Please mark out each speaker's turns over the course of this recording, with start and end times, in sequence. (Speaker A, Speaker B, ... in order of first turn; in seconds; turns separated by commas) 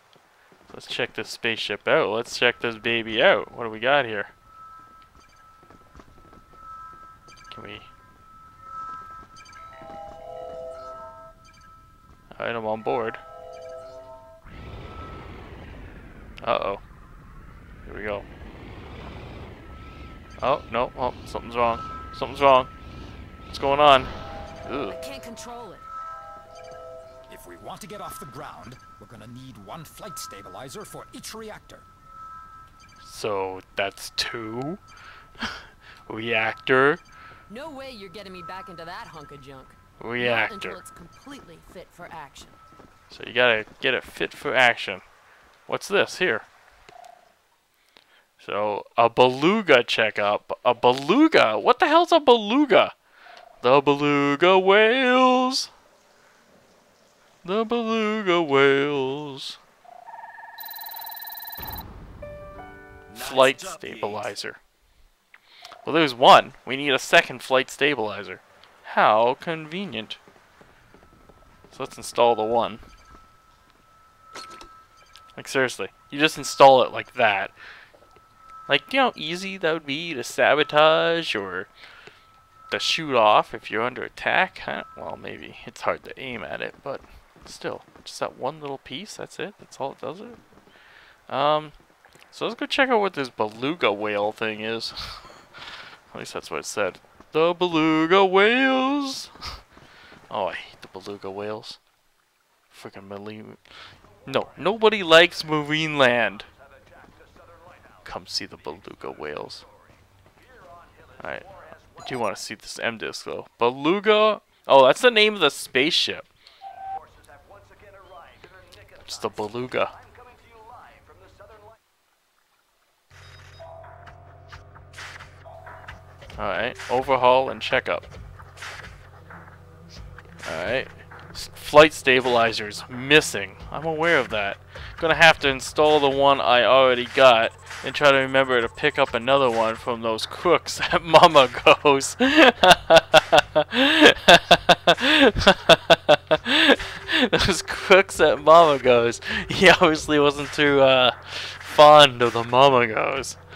Speaker A: 0.7-4.3, Speaker A: 7.5-7.9, Speaker A: 12.3-13.2, Speaker A: 16.4-16.8, Speaker A: 17.8-18.2, Speaker A: 20.4-22.7, Speaker A: 23.5-24.1, Speaker A: 24.6-25.0, Speaker B: 24.9-25.9, Speaker C: 27.3-31.9, Speaker A: 33.0-34.8, Speaker A: 35.4-37.0, Speaker B: 37.5-42.6, Speaker A: 40.0-40.8, Speaker A: 43.1-45.0, Speaker A: 45.7-46.5, Speaker A: 48.4-52.9, Speaker A: 53.6-55.7, Speaker A: 57.4-59.6, Speaker C: 63.1-64.3, Speaker A: 63.1-64.6, Speaker A: 65.8-70.2, Speaker A: 71.7-72.8, Speaker A: 75.3-77.5, Speaker A: 78.7-81.7, Speaker A: 82.7-90.4, Speaker A: 91.3-91.7, Speaker A: 92.3-99.3, Speaker A: 100.3-101.8, Speaker A: 102.7-103.6, Speaker A: 104.2-106.5, Speaker A: 108.0-109.6, Speaker A: 111.2-116.3, Speaker A: 119.0-119.9, Speaker A: 126.4-128.1, Speaker A: 130.4-153.4